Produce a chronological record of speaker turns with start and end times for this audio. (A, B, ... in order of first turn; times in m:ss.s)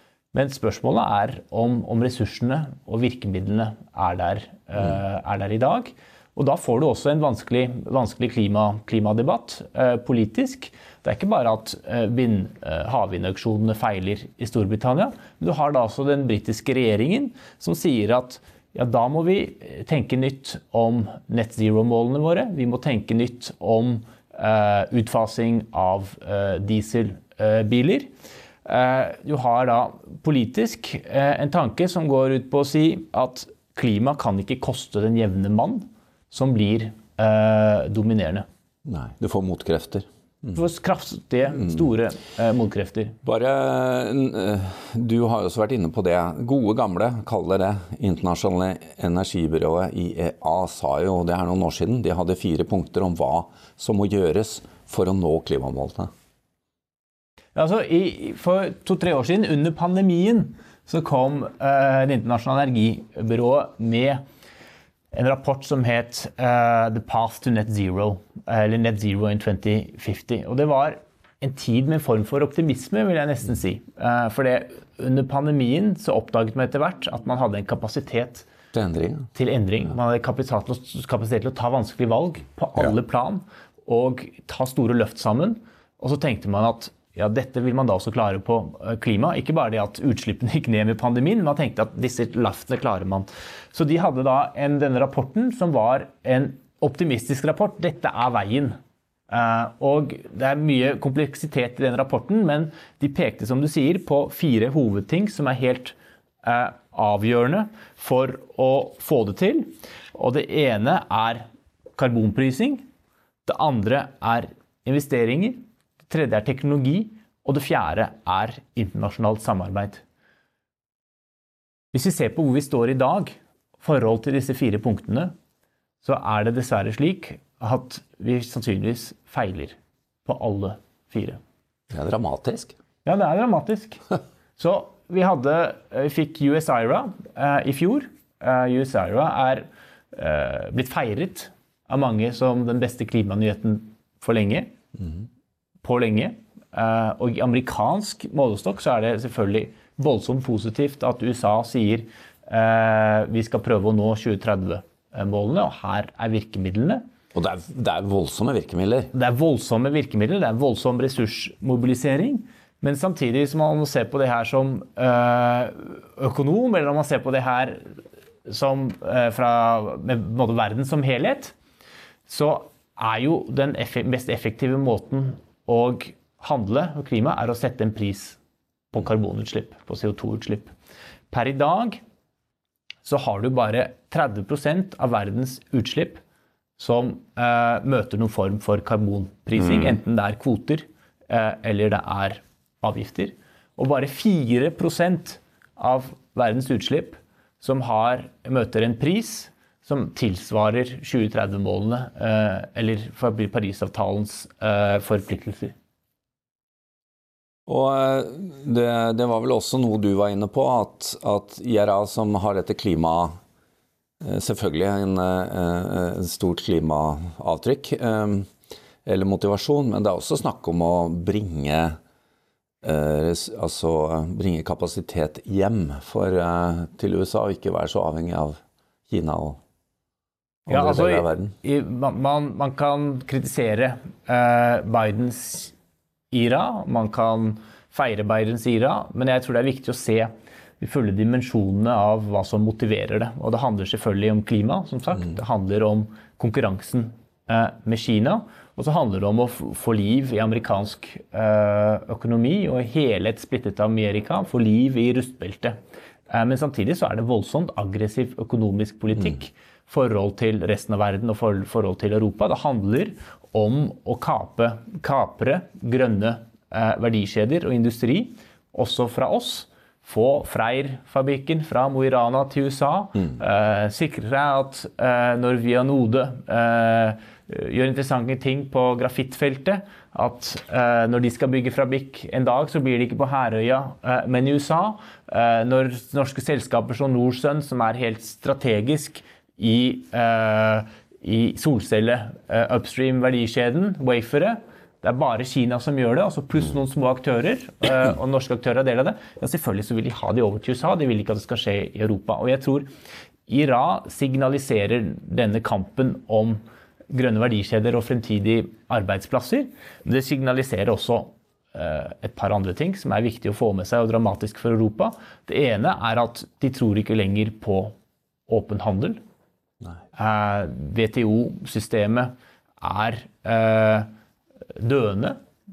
0:00.3-0:28.1 A
0:28.6-0:38.4 A
0:38.8-0:40.6 B
0:40.5-0:43.2 A
0:43.2-0:56.1 B
0:57.5-1:04.2 A
1:05.1-1:18.5 A
1:18.7-1:19.3 B
1:19.3-1:38.7 A
1:39.3-1:51.4 A
1:52.0-1:52.8 A
1:53.4-2:00.0 A
2:01.9-2:05.3 A
2:06.0-2:11.4 A
2:11.9-2:12.7 B
2:13.0-2:14.0 A
2:14.6-2:24.7 A
2:25.8-2:37.0 A
2:37.3-2:39.1 B
2:39.1-2:47.9 A
2:48.4-2:51.5 A
2:52.3-2:58.4 A
2:58.9-3:00.7 A
3:01.3-3:02.0 A
3:03.0-3:06.2 A
3:06.8-3:25.7 A
3:27.7-3:33.4 B
3:34.2-3:38.5 B
3:39.0-3:42.0 B
3:42.8-3:49.6 B
3:50.7-3:51.6 B
3:50.7-3:55.7 A
3:56.3-4:15.8 A
4:16.3-5:02.9 A
5:03.5-5:17.9 A
5:18.5-5:19.2 A
5:20.2-5:24.1 A
5:24.8-5:25.4 A